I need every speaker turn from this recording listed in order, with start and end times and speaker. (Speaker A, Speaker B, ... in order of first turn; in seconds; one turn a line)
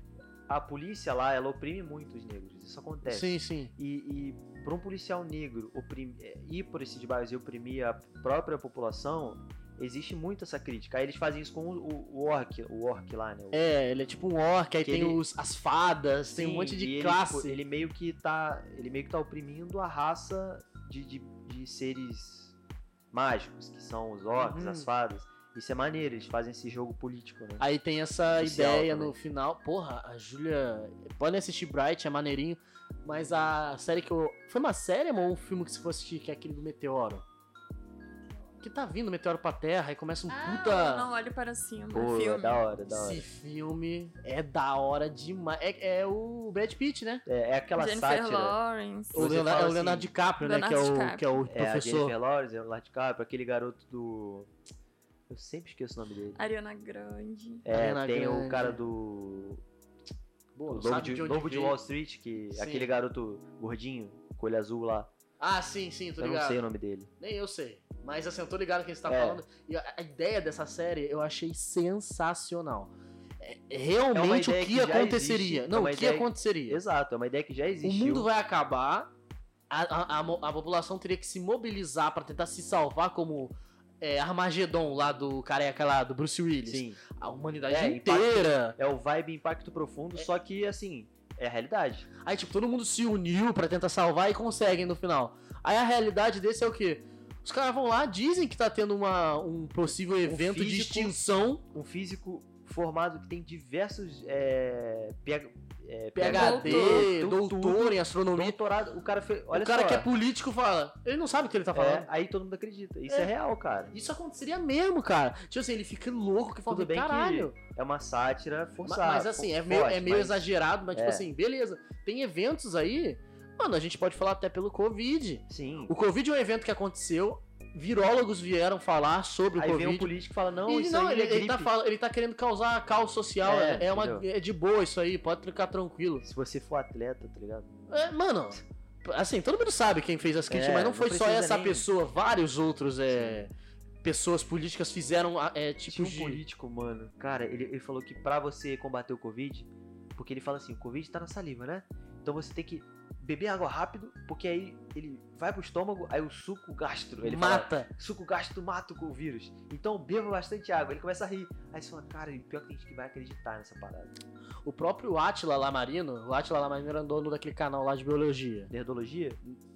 Speaker A: 0.5-13.6
Speaker B: 3.0-3.7
Speaker B: 13.5-17.6
Speaker A: 14.8-15.2
Speaker A: 16.3-22.6
Speaker A: 23.1-27.6
Speaker B: 24.4-24.9
Speaker B: 27.6-37.2
Speaker A: 28.4-29.1
Speaker B: 38.6-41.1
Speaker C: 40.3-42.7
Speaker A: 41.9-43.3
Speaker B: 42.9-47.2
Speaker A: 47.3-48.6
Speaker C: 47.8-49.2
Speaker A: 49.1-50.1
Speaker B: 49.1-52.1
Speaker C: 50.4-51.4
Speaker A: 51.5-54.5
Speaker A: 55.3-56.4
Speaker C: 56.4-57.6
Speaker A: 57.6-59.6
Speaker B: 57.7-58.8
Speaker B: 60.5-61.8
Speaker A: 60.7-65.1
Speaker B: 62.5-62.9
Speaker B: 65.4-66.6
Speaker A: 66.2-67.1
Speaker B: 67.2-76.8
Speaker A: 69.1-69.4
Speaker A: 74.1-78.3
Speaker B: 77.8-79.1
Speaker B: 79.7-88.8
Speaker A: 86.7-87.0
Speaker A: 87.7-92.1
Speaker B: 92.2-101.7
Speaker A: 100.2-101.2
Speaker A: 101.7-110.1
Speaker B: 106.2-108.6
Speaker C: 106.3-107.1
Speaker B: 109.5-112.1
Speaker A: 111.7-113.9
Speaker B: 113.9-117.6
Speaker A: 116.7-121.3
Speaker B: 118.8-130.1
Speaker A: 125.5-125.9
Speaker A: 129.6-131.7
Speaker B: 130.7-136.2
Speaker A: 133.4-134.3
Speaker A: 136.2-137.7
Speaker B: 137.9-143.5
Speaker A: 140.5-141.9
Speaker A: 143.1-143.4
Speaker B: 144.0-146.4
Speaker A: 145.9-164.1
Speaker B: 157.2-157.9
Speaker B: 164.7-168.7
Speaker A: 168.7-169.4